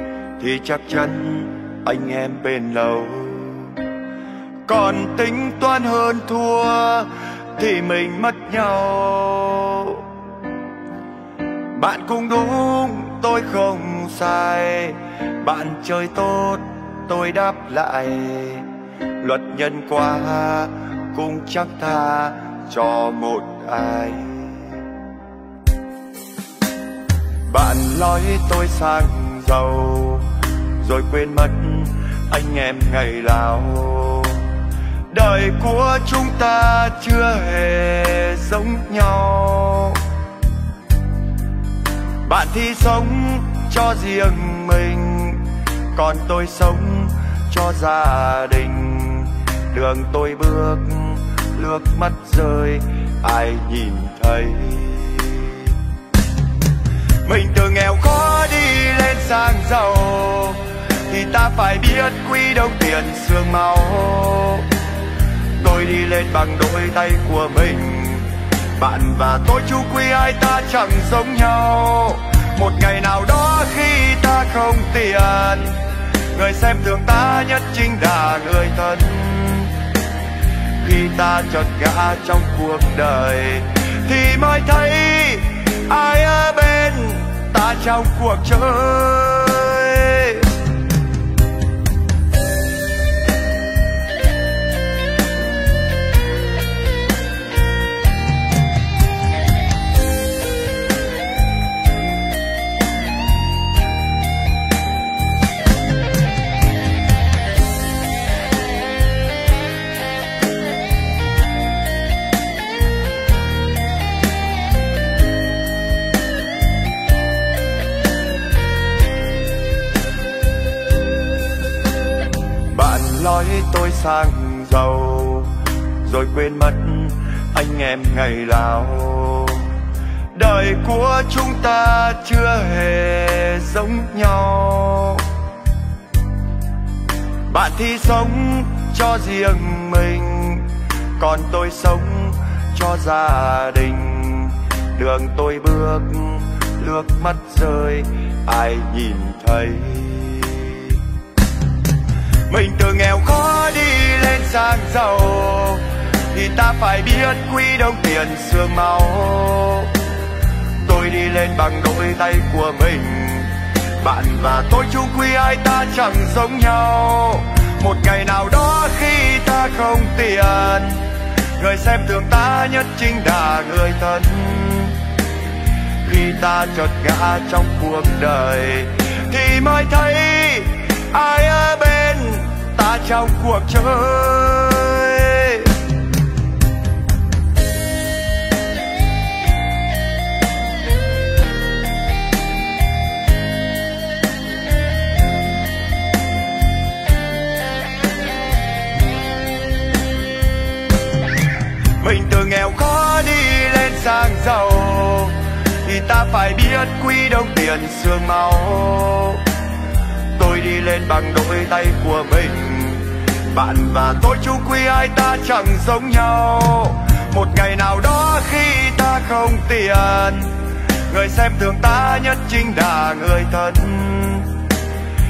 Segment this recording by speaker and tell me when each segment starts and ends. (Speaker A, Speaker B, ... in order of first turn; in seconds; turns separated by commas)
Speaker A: 0.4-3.8, Speaker A: 4.7-10.1, Speaker A: 11.7-18.7, Speaker A: 19.2-24.8, Speaker A: 27.5-34.5, Speaker A: 35.1-40.0, Speaker A: 42.2-55.8, Speaker A: 57.2-64.7, Speaker A: 65.5-75.8, Speaker A: 76.3-79.7, Speaker A: 80.8-90.6, Speaker A: 122.7-129.7, Speaker A: 130.3-135.3, Speaker A: 137.5-151.0, Speaker A: 152.5-160.0, Speaker A: 160.8-175.0, Speaker A: 176.0-185.8, Speaker A: 202.0-209.4, Speaker A: 210.3-224.6